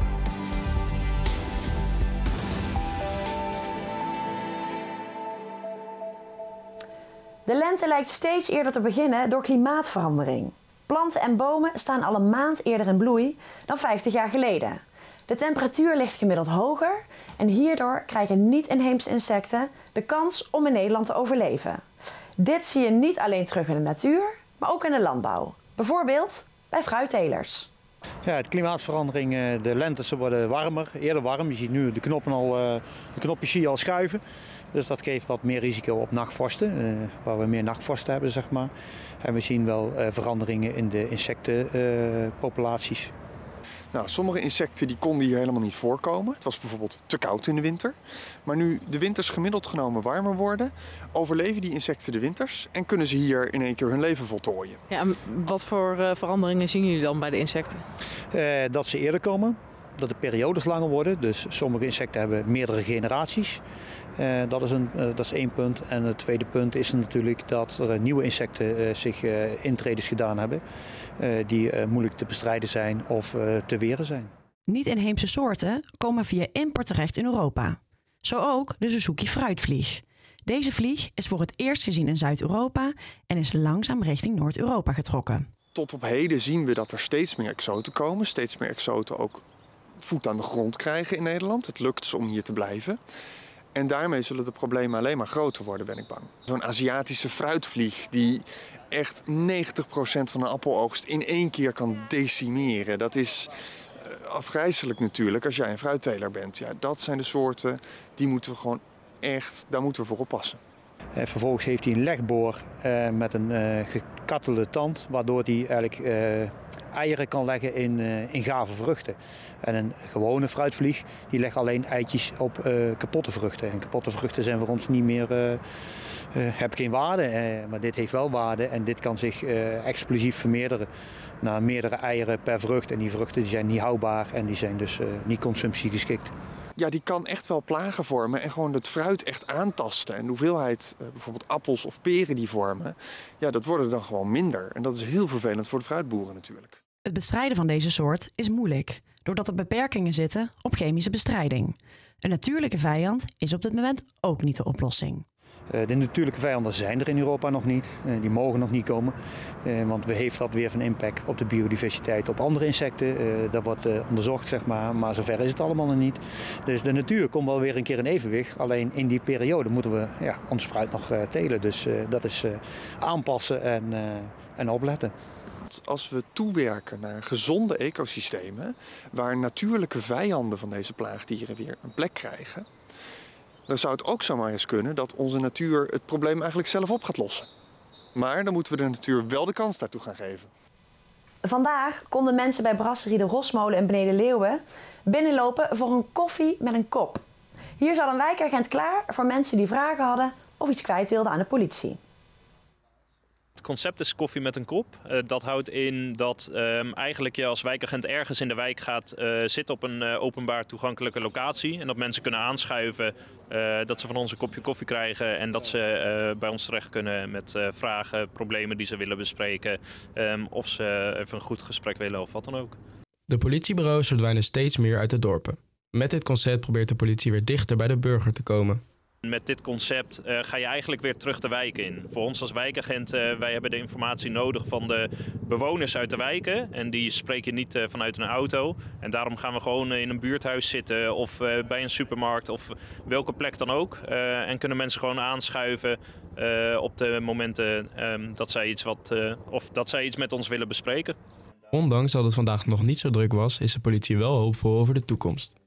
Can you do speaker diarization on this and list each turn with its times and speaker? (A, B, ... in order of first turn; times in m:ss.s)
0:07.5-0:21.8 A
0:22.4-0:27.7 A
0:28.2-0:34.2 B
0:34.7-0:43.1 B
0:43.9-0:54.8 C
0:54.9-0:57.8 D
0:58.3-1:03.6 B
1:04.2-1:10.6 B
1:11.2-1:14.3 B
1:14.7-1:25.5 A
1:25.7-1:29.4 C
1:30.0-1:33.0 C
1:33.7-1:50.6 C
1:51.2-2:05.6 B
2:06.3-2:10.9 B
2:11.4-2:16.3 B
2:16.8-2:26.8 C
2:27.1-2:35.2 A
2:35.7-2:55.1 B
2:55.7-3:02.7 C
3:03.7-3:07.5 C
3:08.2-3:10.5 C
3:11.4-3:17.2 A
3:17.8-3:22.0 A
3:23.6-3:42.8 E
3:43.3-3:48.8 F
3:49.2-4:11.2 E
4:11.7-4:15.5 F